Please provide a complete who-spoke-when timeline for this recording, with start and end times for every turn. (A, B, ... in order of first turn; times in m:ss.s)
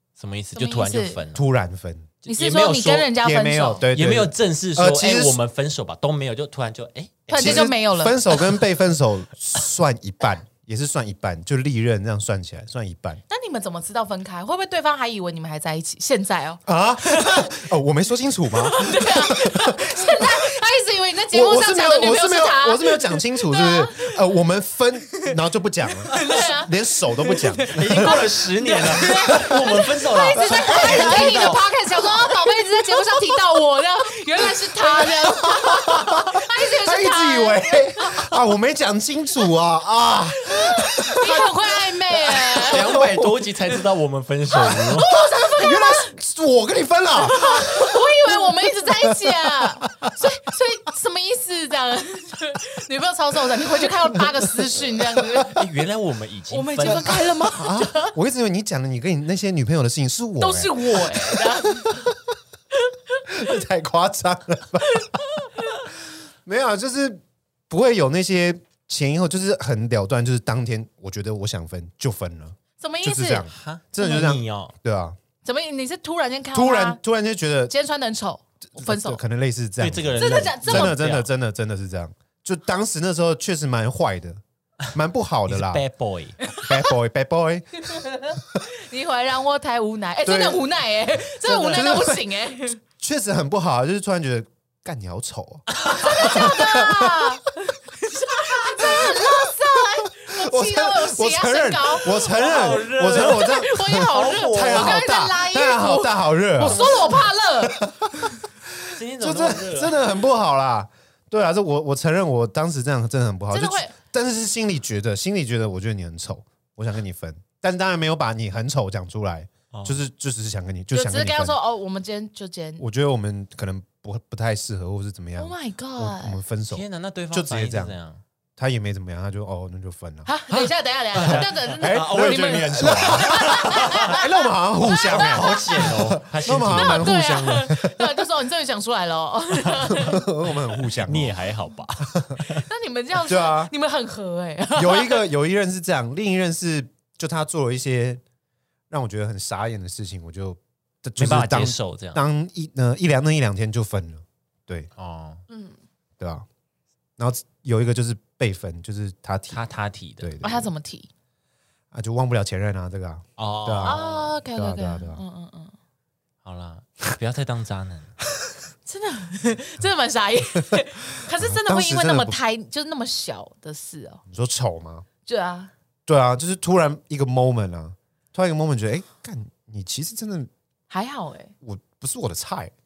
0:00.2-0:01.4 A
0:00.6-0:01.2 B
0:01.3-0:02.1 C
0:02.2-0:03.1 A
0:02.3-0:03.9 B
0:03.2-0:05.4 C
0:03.9-0:07.7 A
0:07.3-0:08.5 B
0:07.3-0:13.2 C
0:13.3-0:17.5 B
0:16.7-0:20.5 C
0:18.5-0:24.2 B
0:21.3-0:28.2 C
0:26.1-0:38.3 B
0:27.7-0:31.6 A
0:29.3-0:29.6 C
0:30.4-0:31.6 C
0:32.2-0:32.5 C
0:34.7-0:43.4 C
0:40.4-0:43.0 B
0:42.6-0:45.1 A
0:44.6-0:46.1 B
0:45.1-0:50.2 C
0:47.2-0:55.6 B
0:54.8-0:55.5 C
0:55.5-0:57.1 A
0:56.5-0:58.2 B
0:56.9-1:02.2 C
1:00.4-1:02.1 B
1:03.1-1:03.4 B
1:03.3-1:05.1 C
1:04.9-1:05.5 B
1:06.1-1:15.2 C
1:12.8-1:13.5 B
1:13.5-1:14.7 A
1:15.4-1:17.0 B
1:16.5-1:17.7 C
1:17.7-1:19.2 B
1:18.8-1:24.4 C
1:19.8-1:21.3 A
1:20.2-1:21.0 B
1:24.9-1:25.8 C
1:25.5-1:26.4 A
1:26.5-1:26.9 B
1:26.5-1:27.9 C
1:27.9-1:32.8 B
1:30.2-1:30.6 C
1:31.4-1:32.3 C
1:33.0-1:37.4 C
1:35.7-1:36.3 A
1:36.0-1:48.3 B
1:38.7-2:01.6 C
1:42.3-1:45.0 A
1:46.6-1:47.2 A
1:48.9-1:50.0 A
1:53.5-1:53.9 B
1:59.7-2:00.0 A
2:00.9-2:02.8 B
2:02.8-2:08.0 C
2:05.4-2:06.4 B
2:06.7-2:08.2 A
2:08.6-2:10.3 C
2:10.3-2:16.0 B
2:10.5-2:14.2 A
2:11.2-2:18.3 C
2:15.1-2:17.1 A
2:16.6-2:20.3 B
2:19.7-2:21.4 C
2:21.0-2:22.6 A
2:22.4-2:25.2 B
2:23.2-2:23.7 C
2:24.8-2:28.2 C
2:28.9-2:34.9 C
2:31.2-2:32.2 A
2:35.0-2:35.4 A
2:35.5-2:35.8 B
2:36.2-2:36.5 C
2:37.2-2:39.6 C
2:39.5-2:40.4 A
2:40.2-2:40.7 C
2:40.4-2:41.1 B
2:41.9-2:45.2 C
2:43.4-2:44.4 A
2:43.8-2:45.8 B
2:46.4-2:48.1 A
2:48.9-2:54.2 B
2:50.6-2:52.4 C
2:54.3-2:55.1 C
2:55.3-2:55.7 B
2:56.1-3:00.5 C
3:00.9-3:01.5 B
3:01.6-3:02.7 C